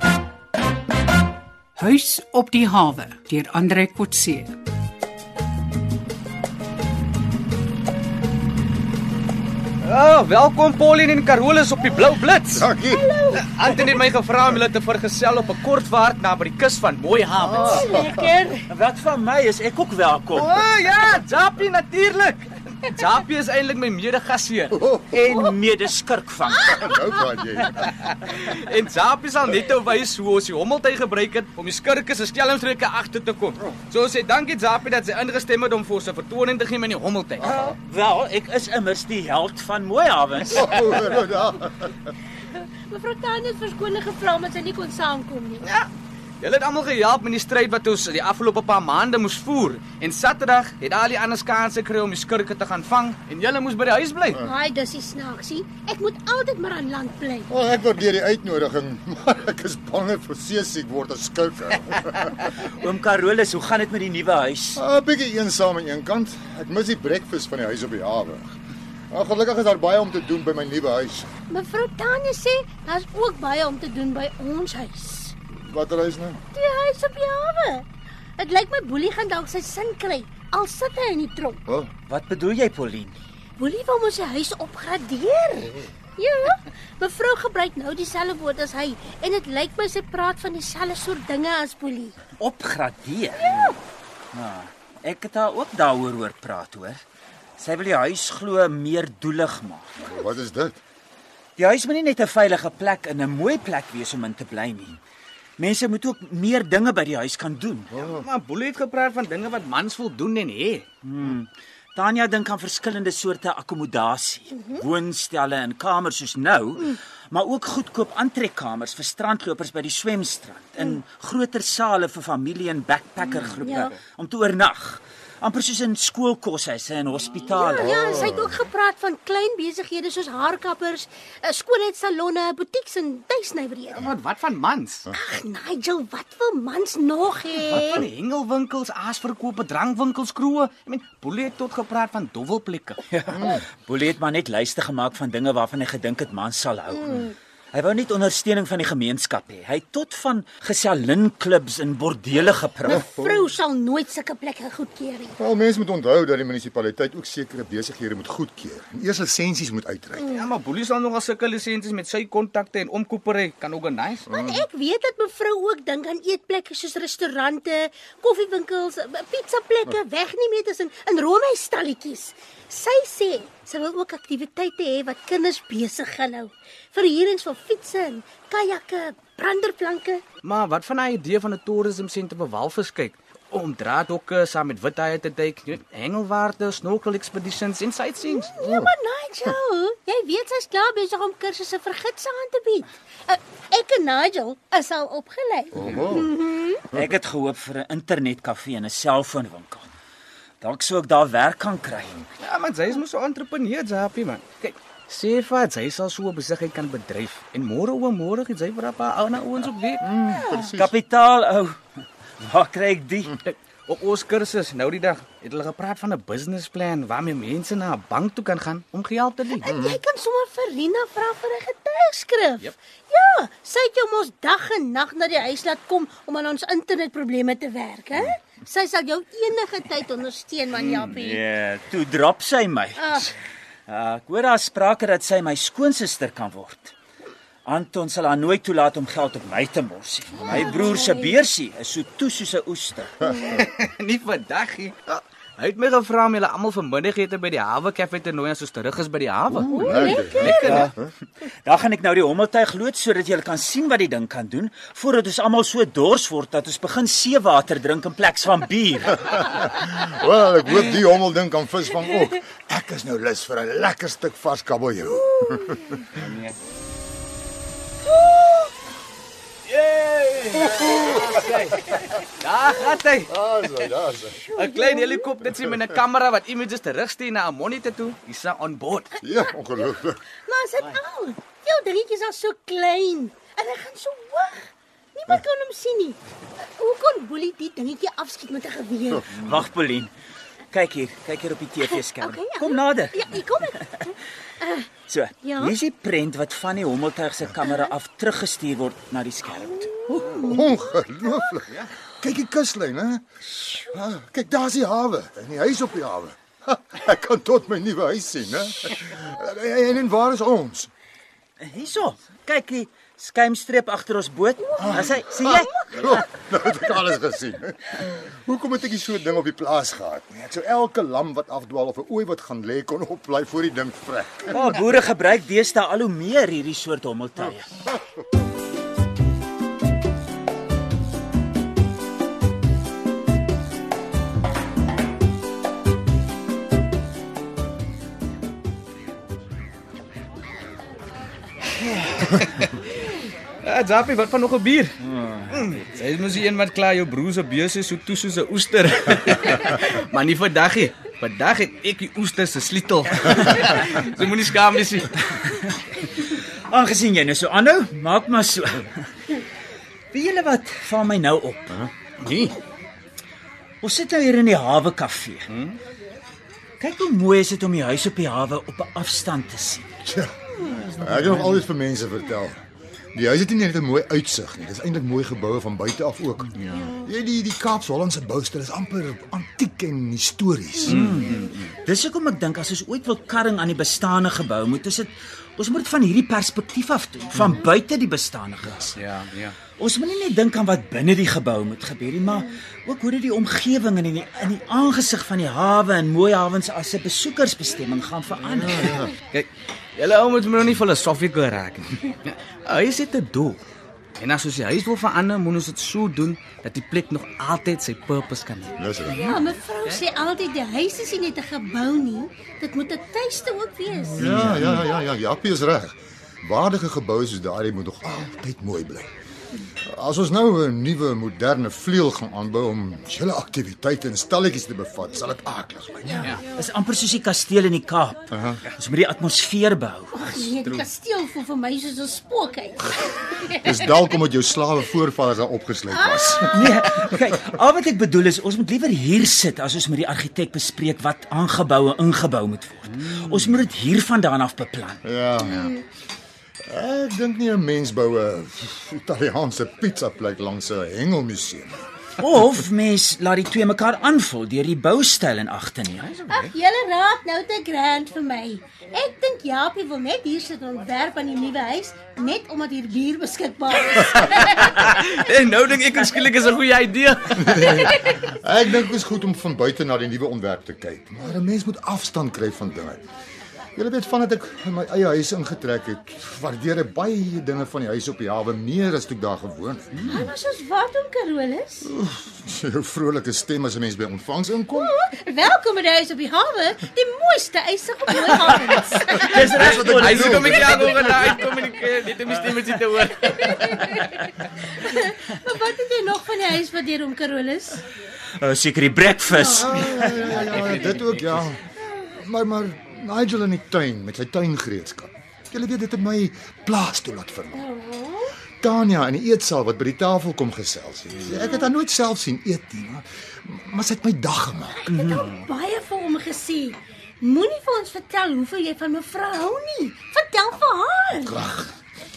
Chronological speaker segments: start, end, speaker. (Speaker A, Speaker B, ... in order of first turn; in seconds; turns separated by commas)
Speaker A: 1.8-4.5, Speaker B: 9.8-12.7, Speaker C: 12.5-13.0, Speaker D: 12.9-13.5, Speaker B: 13.3-17.8, Speaker D: 17.5-18.7, Speaker C: 17.6-18.2, Speaker E: 18.7-20.5, Speaker B: 20.3-24.8, Speaker C: 24.7-25.2, Speaker E: 25.1-26.8, Speaker C: 26.6-27.9, Speaker B: 27.9-37.6, Speaker E: 37.4-40.8, Speaker C: 40.5-42.0, Speaker D: 42.5-45.7, Speaker B: 45.6-45.9, Speaker B: 46.4-54.4, Speaker D: 54.4-57.5, Speaker C: 57.5-62.5, Speaker E: 62.6-64.8, Speaker C: 64.8-68.5, Speaker C: 69.1-71.3, Speaker D: 71.5-75.3, Speaker C: 75.6-76.4, Speaker D: 76.5-77.9, Speaker D: 78.4-81.6, Speaker C: 81.7-81.9, Speaker E: 82.1-83.2, Speaker D: 83.6-92.2, Speaker E: 92.4-93.7, Speaker D: 93.4-93.8, Speaker E: 94.3-97.0, Speaker E: 97.6-100.1, Speaker C: 100.0-100.8, Speaker E: 101.6-105.0, Speaker E: 105.6-108.0, Speaker C: 107.9-108.3, Speaker B: 108.0-110.8, Speaker E: 111.0-128.0, Speaker D: 114.5-114.8, Speaker D: 123.6-124.0, Speaker D: 127.5-134.1, Speaker C: 127.8-128.6, Speaker B: 133.9-135.1, Speaker D: 135.1-138.0, Speaker B: 137.6-143.0, Speaker E: 143.1-153.0, Speaker C: 143.3-143.6, Speaker C: 152.9-153.5, Speaker D: 152.9-155.3, Speaker C: 155.4-160.3, Speaker B: 160.3-164.3, Speaker C: 164.3-164.6, Speaker D: 164.3-180.2, Speaker B: 180.4-188.5, Speaker D: 188.2-196.8, Speaker C: 188.6-188.9, Speaker C: 195.7-196.4, Speaker E: 196.9-199.9, Speaker E: 200.6-202.3, Speaker B: 202.4-210.1, Speaker C: 210.0-210.9, Speaker D: 210.4-210.7, Speaker E: 210.7-213.4, Speaker B: 213.4-219.7, Speaker C: 219.6-220.0, Speaker D: 219.6-231.4, Speaker B: 230.7-231.3, Speaker E: 231.2-233.3, Speaker D: 233.0-233.3, Speaker E: 233.9-236.9, Speaker E: 237.7-243.3, Speaker D: 240.5-241.2, Speaker B: 243.3-250.9, Speaker C: 249.5-250.9, Speaker D: 249.7-250.8, Speaker E: 250.5-250.9, Speaker E: 251.5-259.2, Speaker C: 259.2-266.0, Speaker B: 266.1-266.5, Speaker B: 269.7-273.3, Speaker C: 270.8-271.1, Speaker C: 273.3-274.4, Speaker D: 274.4-275.3, Speaker B: 274.6-279.1, Speaker C: 279.2-280.2, Speaker D: 280.4-289.3, Speaker C: 289.1-289.6, Speaker E: 289.2-290.1, Speaker E: 290.7-294.1, Speaker D: 291.8-295.7, Speaker E: 295.0-300.1, Speaker D: 299.8-300.8, Speaker B: 300.2-300.6, Speaker C: 300.4-303.2, Speaker D: 303.6-303.9, Speaker C: 303.9-310.9, Speaker E: 311.6-316.3, Speaker C: 314.8-324.7, Speaker E: 324.5-327.7, Speaker B: 342.1-342.9, Speaker B: 343.6-355.6, Speaker E: 345.0-345.8, Speaker E: 356.2-359.3, Speaker E: 360.1-361.8, Speaker B: 362.2-362.6, Speaker E: 363.8-365.5, Speaker B: 365.5-365.8, Speaker E: 366.8-369.9, Speaker C: 370.0-370.3, Speaker C: 370.9-372.6, Speaker C: 373.1-381.1, Speaker B: 376.6-376.9, Speaker B: 380.8-381.7, Speaker E: 380.9-389.0, Speaker B: 388.9-389.6, Speaker E: 389.7-399.1, Speaker C: 398.7-399.1, Speaker B: 399.3-403.6, Speaker B: 404.2-408.8, Speaker C: 408.8-409.4, Speaker D: 409.0-414.2, Speaker C: 414.1-419.1, Speaker E: 414.2-414.8, Speaker C: 419.9-426.4, Speaker E: 426.4-430.5, Speaker C: 428.3-428.6, Speaker D: 430.1-433.8, Speaker B: 430.6-430.9, Speaker C: 433.6-437.0, Speaker D: 435.9-436.5, Speaker E: 436.4-445.0, Speaker B: 442.9-443.6, Speaker C: 445.0-445.7, Speaker B: 445.4-445.7, Speaker C: 446.6-451.8, Speaker E: 452.2-456.1, Speaker B: 456.0-456.5, Speaker D: 456.3-464.7, Speaker B: 464.1-468.1, Speaker C: 467.3-473.0, Speaker C: 473.8-480.2, Speaker D: 480.0-481.9, Speaker C: 481.8-484.9, Speaker D: 484.7-489.3, Speaker B: 488.1-494.5, Speaker C: 489.0-491.4, Speaker E: 489.2-490.9, Speaker D: 493.2-497.8, Speaker E: 498.4-500.3, Speaker C: 499.5-507.7, Speaker B: 500.2-501.4, Speaker D: 507.6-508.4, Speaker C: 508.6-514.9, Speaker D: 514.9-521.4, Speaker E: 514.9-515.3, Speaker C: 521.3-521.7